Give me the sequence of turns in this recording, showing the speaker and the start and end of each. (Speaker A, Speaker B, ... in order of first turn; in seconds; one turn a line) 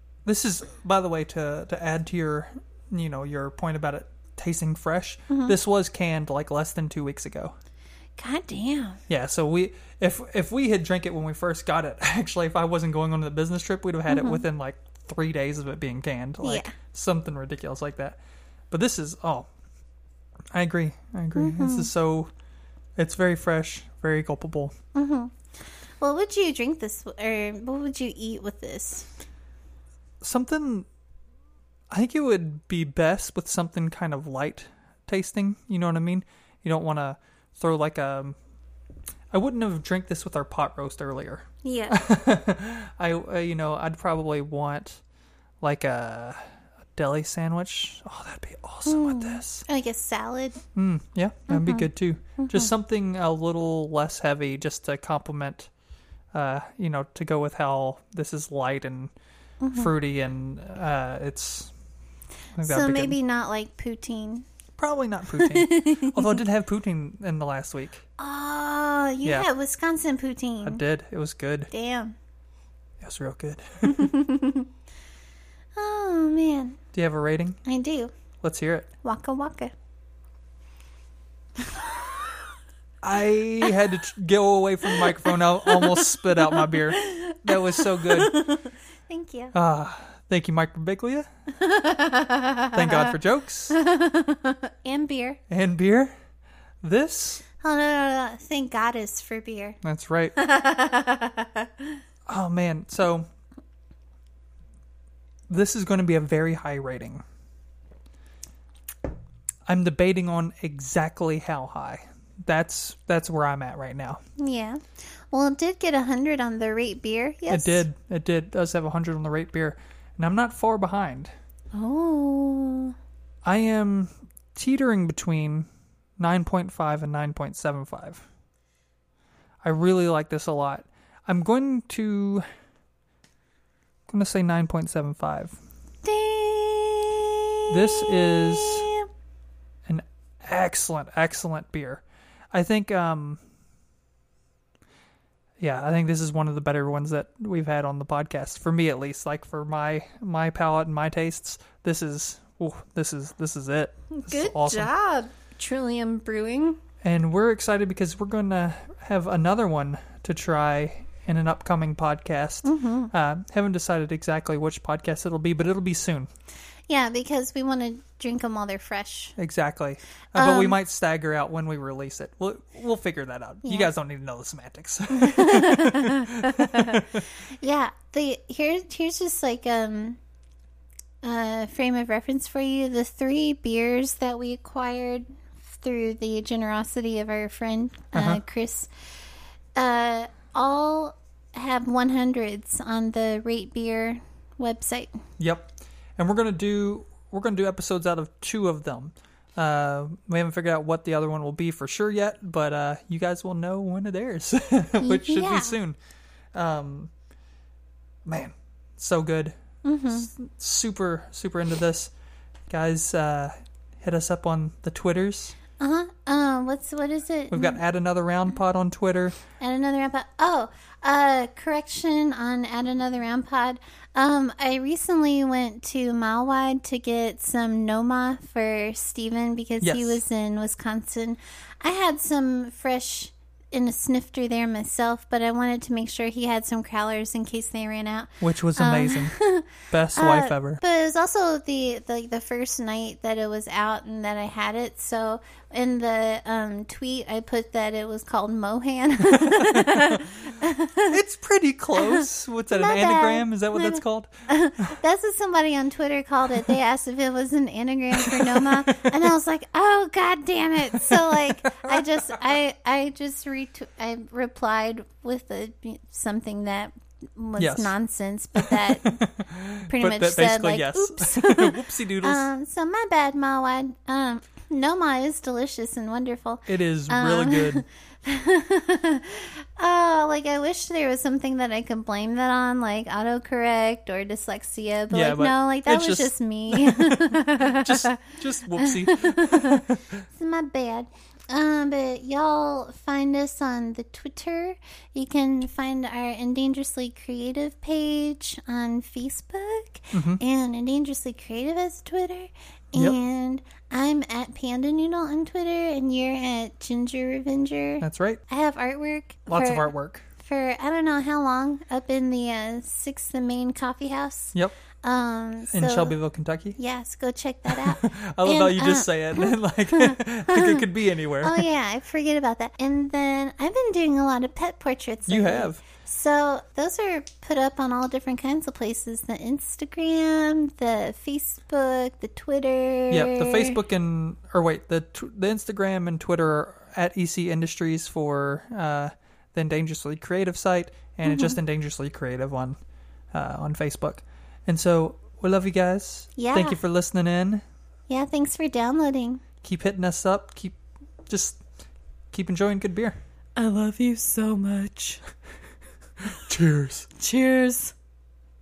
Speaker A: 0.2-7.5
Speaker B: 5.3-5.5
Speaker B: 8.2-9.0
Speaker A: 9.1-18.2
Speaker B: 14.1-14.4
Speaker B: 16.4-16.7
Speaker A: 18.7-19.5
Speaker A: 20.5-22.3
Speaker B: 21.4-21.9
Speaker A: 23.0-24.7
Speaker B: 24.9-25.3
Speaker B: 26.0-29.1
Speaker A: 30.2-30.9
Speaker A: 31.9-38.4
Speaker A: 39.3-45.0
Speaker B: 41.6-42.0
Speaker A: 45.6-46.4
Speaker A: 47.0-49.6
Speaker B: 48.9-50.6
Speaker A: 50.7-55.7
Speaker B: 51.5-52.7
Speaker A: 56.3-59.1
Speaker B: 59.6-59.9
Speaker A: 59.7-61.7
Speaker A: 62.5-63.2
Speaker B: 62.6-64.4
Speaker A: 64.8-68.0
Speaker B: 65.3-66.4
Speaker B: 68.2-70.8
Speaker A: 70.6-71.7
Speaker B: 71.7-72.1
Speaker A: 73.0-74.1
Speaker B: 73.8-74.7
Speaker B: 75.8-76.8
Speaker A: 76.9-77.6
Speaker B: 77.7-78.1
Speaker A: 78.4-78.9
Speaker B: 79.0-79.7
Speaker B: 81.8-82.1
Speaker A: 83.0-88.5
Speaker B: 84.9-89.5
Speaker A: 89.5-91.3
Speaker B: 91.6-93.1
Speaker A: 92.7-93.8
Speaker B: 93.7-95.4
Speaker A: 95.5-96.1
Speaker A: 96.8-97.4
Speaker B: 97.6-99.8
Speaker A: 99.8-100.4
Speaker B: 100.3-102.0
Speaker A: 102.3-103.2
Speaker A: 105.5-107.2
Speaker A: 109.7-114.2
Speaker B: 114.4-117.8
Speaker A: 117.5-121.3
Speaker B: 121.7-122.9
Speaker A: 123.4-125.7
Speaker A: 126.2-128.2
Speaker A: 129.6-132.4
Speaker A: 134.1-135.6
Speaker B: 136.0-139.1
Speaker A: 137.7-138.9
Speaker A: 139.8-143.4
Speaker A: 145.6-154.9
Speaker B: 154.1-156.8
Speaker A: 157.0-166.3
Speaker B: 162.6-163.1
Speaker B: 166.9-169.3
Speaker A: 169.4-177.2
Speaker B: 170.3-170.8
Speaker B: 173.6-173.9
Speaker B: 175.1-177.0
Speaker B: 177.6-180.2
Speaker B: 181.2-188.9
Speaker A: 188.1-188.4
Speaker B: 189.8-195.2
Speaker A: 195.4-206.0
Speaker B: 205.0-205.8
Speaker A: 206.5-207.1
Speaker A: 208.2-209.5
Speaker B: 209.8-210.3
Speaker A: 210.1-212.1
Speaker A: 212.7-215.5
Speaker B: 215.8-217.8
Speaker A: 217.5-219.3
Speaker B: 219.6-251.2
Speaker A: 229.8-230.2
Speaker A: 238.4-240.8
Speaker A: 249.3-250.2
Speaker A: 251.0-254.3
Speaker B: 252.0-269.1
Speaker A: 258.2-259.1
Speaker A: 260.9-262.4
Speaker A: 267.6-267.9
Speaker A: 268.5-272.5
Speaker B: 269.9-309.9
Speaker A: 276.7-277.8
Speaker A: 285.1-290.2
Speaker A: 300.1-300.4
Speaker A: 308.0-308.4
Speaker A: 309.5-310.2
Speaker B: 310.4-316.1
Speaker A: 314.5-314.8
Speaker A: 315.7-316.8
Speaker B: 316.8-320.8
Speaker A: 317.7-321.6
Speaker B: 321.4-333.8
Speaker A: 325.3-325.8
Speaker A: 333.1-342.8
Speaker B: 341.2-341.6
Speaker A: 343.3-347.6
Speaker B: 346.4-346.8
Speaker B: 348.1-349.4
Speaker A: 349.6-351.6
Speaker A: 352.3-353.2
Speaker C: 353.6-355.2
Speaker A: 356.5-357.1
Speaker C: 357.1-357.9